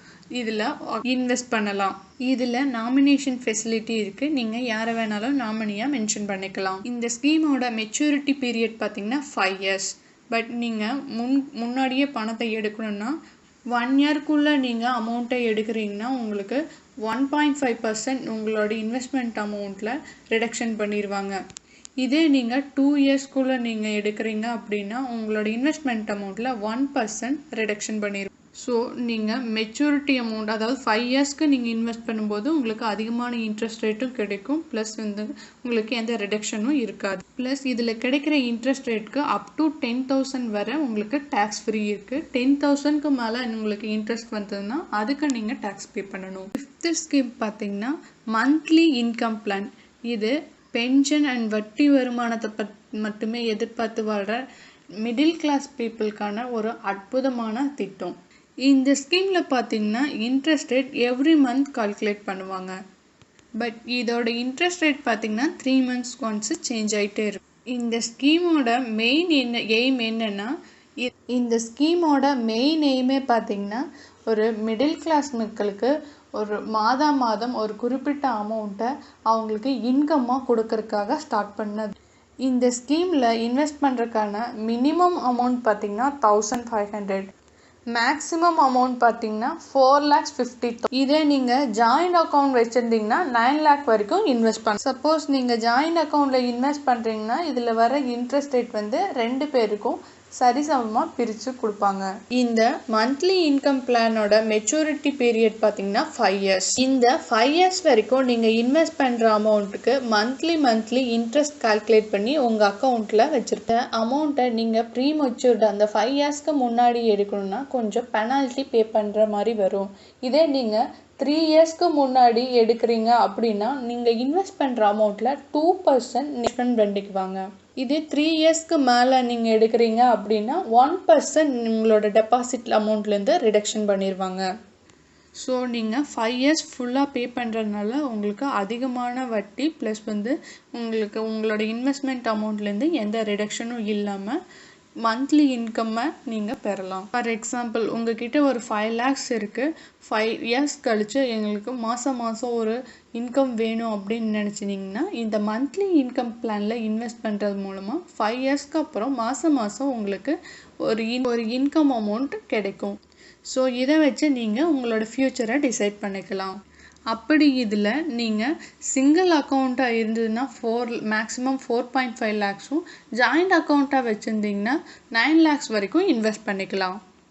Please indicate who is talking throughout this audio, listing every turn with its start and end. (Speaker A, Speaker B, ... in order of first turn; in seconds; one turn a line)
Speaker A: 0.3-13.1
Speaker A: 13.7-21.4
Speaker A: 22.0-54.4
Speaker A: 55.0-58.1
Speaker A: 58.6-62.7
Speaker A: 63.6-87.3
Speaker A: 87.9-134.4
Speaker A: 135.4-144.4
Speaker A: 145.0-162.9
Speaker A: 163.4-166.6
Speaker A: 167.1-177.0